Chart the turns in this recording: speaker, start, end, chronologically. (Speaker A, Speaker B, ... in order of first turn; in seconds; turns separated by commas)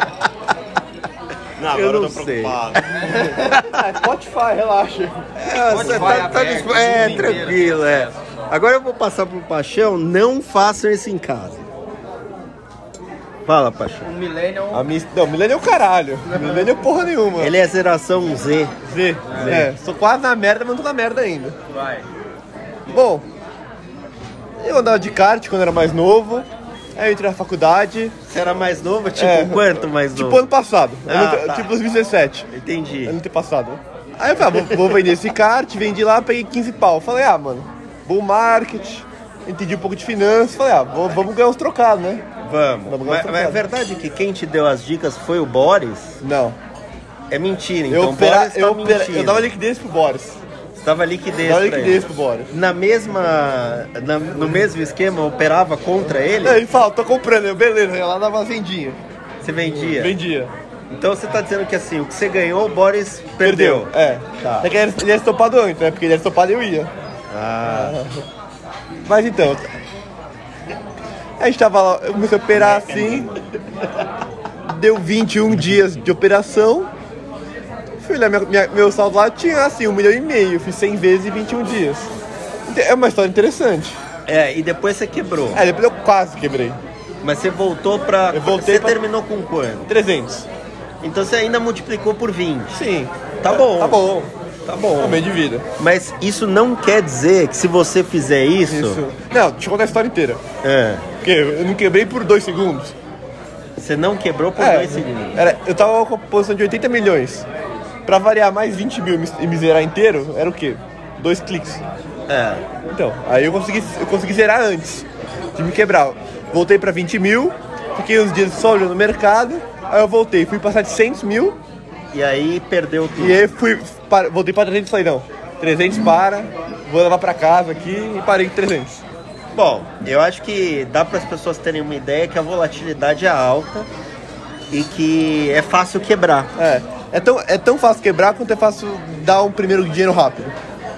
Speaker A: 1.6-3.0, Speaker B: 1.7-3.9, Speaker C: 2.9-3.3, Speaker D: 3.0-5.2, Speaker B: 5.3-11.7, Speaker C: 5.6-8.6, Speaker D: 5.8-6.3, Speaker D: 7.0-7.3, Speaker B: 13.4-14.1, Speaker C: 14.0-14.9, Speaker D: 14.7-17.5, Speaker B: 17.4-18.7, Speaker D: 18.9-21.6, Speaker C: 19.2-19.7, Speaker B: 19.3-19.7, Speaker C: 21.7-22.1, Speaker D: 22.9-23.2, Speaker D: 24.6-28.1, Speaker B: 28.2-30.5, Speaker D: 29.2-32.5, Speaker B: 31.1-31.7, Speaker B: 32.5-33.2, Speaker D: 33.0-42.2, Speaker B: 34.5-35.0, Speaker B: 42.4-46.2, Speaker D: 42.9-43.6, Speaker D: 46.2-46.6, Speaker B: 47.3-49.5, Speaker D: 47.9-50.4, Speaker B: 50.8-56.6, Speaker D: 51.5-52.5, Speaker D: 56.4-59.0, Speaker B: 59.4-60.1, Speaker D: 59.8-60.5, Speaker B: 60.9-64.7, Speaker D: 63.4-66.9, Speaker B: 67.3-68.0, Speaker D: 67.6-68.2, Speaker D: 69.0-69.7, Speaker D: 71.4-73.3, Speaker A: 72.6-73.3, Speaker D: 74.7-76.9, Speaker D: 78.0-82.1, Speaker D: 82.7-84.0, Speaker B: 84.3-85.6, Speaker D: 85.5-86.8, Speaker B: 87.2-89.9, Speaker D: 88.3-89.0, Speaker D: 89.9-90.5, Speaker B: 91.0-92.8, Speaker D: 92.7-94.3, Speaker B: 93.4-94.0, Speaker B: 94.7-99.0, Speaker D: 95.0-95.7, Speaker D: 98.7-100.4, Speaker B: 100.6-101.1, Speaker D: 101.2-102.9, Speaker B: 103.8-105.5, Speaker D: 104.6-107.5, Speaker D: 108.0-111.8, Speaker B: 112.3-112.6, Speaker D: 112.9-121.6, Speaker B: 122.1-123.5, Speaker D: 123.2-129.0, Speaker B: 129.5-133.9, Speaker B: 134.7-136.5, Speaker D: 136.6-140.6